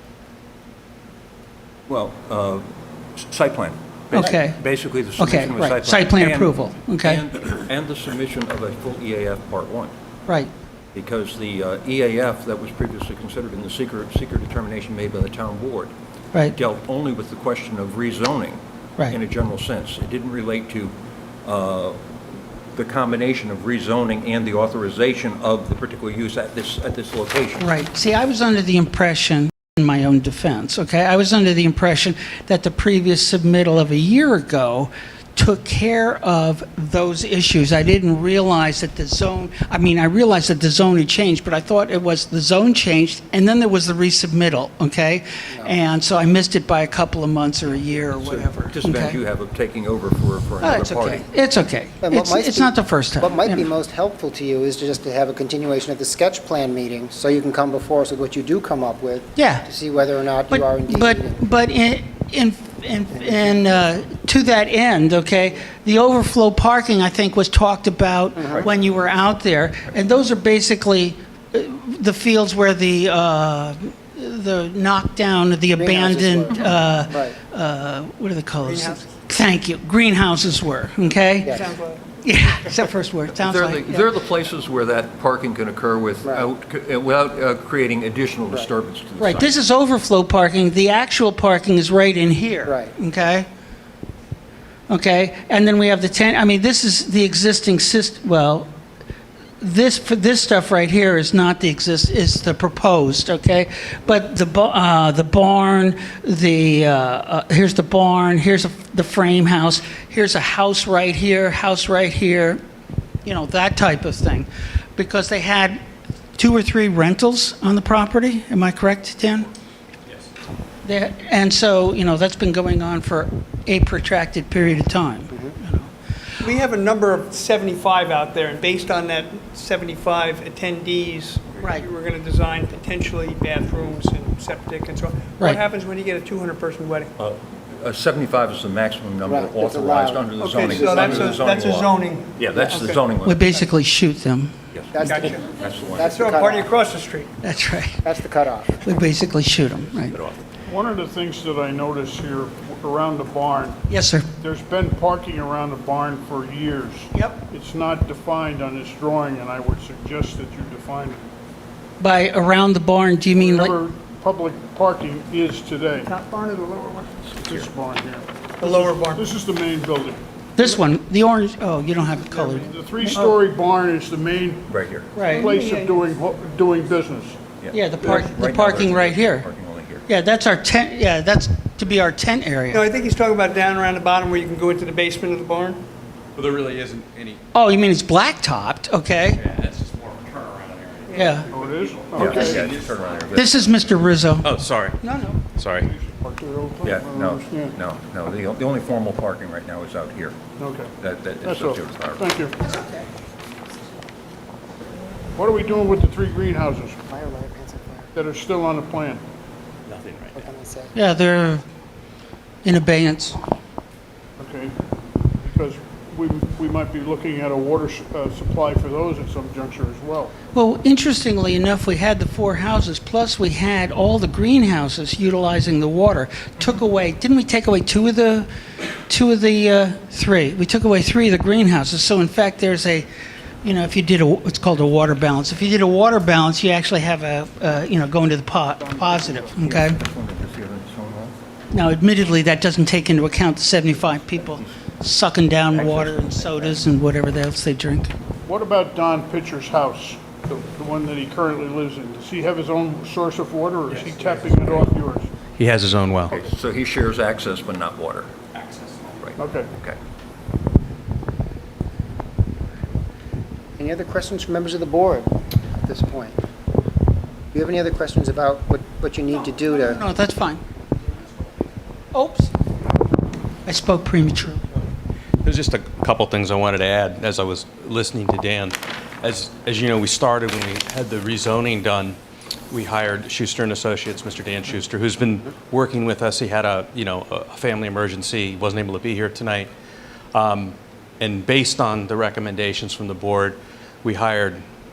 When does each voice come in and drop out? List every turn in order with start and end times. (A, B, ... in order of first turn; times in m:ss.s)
0:01.9-0:02.6 A
0:03.2-0:09.9 A
0:04.1-0:04.6 B
0:05.2-0:07.2 B
0:10.9-0:15.9 A
0:16.5-0:22.0 A
0:22.7-0:27.6 A
0:27.6-0:49.2 B
0:48.2-0:51.3 A
0:50.6-0:53.7 B
0:52.0-1:01.5 C
0:59.4-0:59.7 B
1:00.5-1:21.6 B
1:03.2-1:03.7 C
1:08.4-1:08.7 C
1:15.8-1:17.4 C
1:18.6-1:19.3 D
1:21.5-1:22.0 D
1:22.2-1:24.1 B
1:23.4-1:29.6 A
1:29.2-1:33.5 B
1:32.7-1:32.9 C
1:34.9-1:38.7 B
1:39.6-1:52.6 B
1:53.2-1:55.8 B
1:56.4-1:59.5 B
2:00.8-2:05.9 B
2:06.4-2:17.1 D
2:11.6-2:11.9 B
2:17.2-2:23.4 A
2:19.2-2:21.4 C
2:20.4-2:23.0 D
2:23.2-2:24.5 B
2:24.7-2:26.2 A
2:24.9-2:25.4 C
2:25.1-2:27.3 D
2:25.9-2:26.7 C
2:27.4-2:28.0 B
2:28.0-2:28.8 C
2:28.8-2:30.2 B
2:30.1-2:30.4 A
2:30.7-2:33.8 E
2:33.9-2:34.3 B
2:34.4-2:41.2 E
2:42.0-2:43.8 B
2:43.4-2:46.1 E
2:46.0-2:47.0 D
2:47.0-2:47.7 A
2:47.4-2:50.7 E
2:48.6-2:49.3 D
2:50.6-2:53.3 B
2:52.2-2:57.4 E
2:54.7-2:55.2 A
2:55.1-2:55.5 B
2:55.2-2:56.0 D
2:57.6-3:00.0 A
2:57.7-2:59.5 B
3:00.1-3:02.8 B
3:02.7-3:05.8 D
3:06.4-3:07.4 F
3:07.5-3:09.4 B
3:09.3-3:13.4 F
3:11.1-3:11.5 D
3:11.2-3:11.5 B
3:11.5-3:12.8 E
3:12.2-3:13.5 A
3:13.3-3:14.5 B
3:14.4-3:15.0 F
3:15.0-3:15.4 B
3:15.5-3:15.9 F
3:15.8-3:17.8 E
3:16.8-3:20.4 A
3:20.6-3:22.6 E
3:21.0-3:22.3 A
3:25.4-3:27.0 E
3:27.1-3:28.2 C
3:28.2-3:29.2 E
3:29.9-3:30.4 F
3:30.3-3:30.9 C
3:31.0-3:31.6 B
3:32.6-3:33.4 B
3:34.4-3:34.8 E
3:35.4-3:40.3 E
3:40.5-3:48.5 B
3:49.1-3:53.1 B
3:53.6-4:00.0 B
3:58.8-3:59.6 E
3:59.6-4:01.4 A
4:01.7-4:08.1 B
4:05.8-4:06.8 A
4:08.5-4:15.3 E
4:13.9-4:14.9 F
4:15.6-4:16.3 F
4:16.3-4:18.3 A
4:18.6-4:19.2 F
4:19.2-4:20.0 A
4:19.4-4:19.7 E
4:23.8-4:26.4 C
4:27.5-4:30.0 C
4:29.4-4:30.6 B
4:32.1-4:32.5 B
4:33.7-4:34.6 B
4:35.4-4:42.2 F
4:42.7-4:49.7 F
4:50.3-4:54.6 F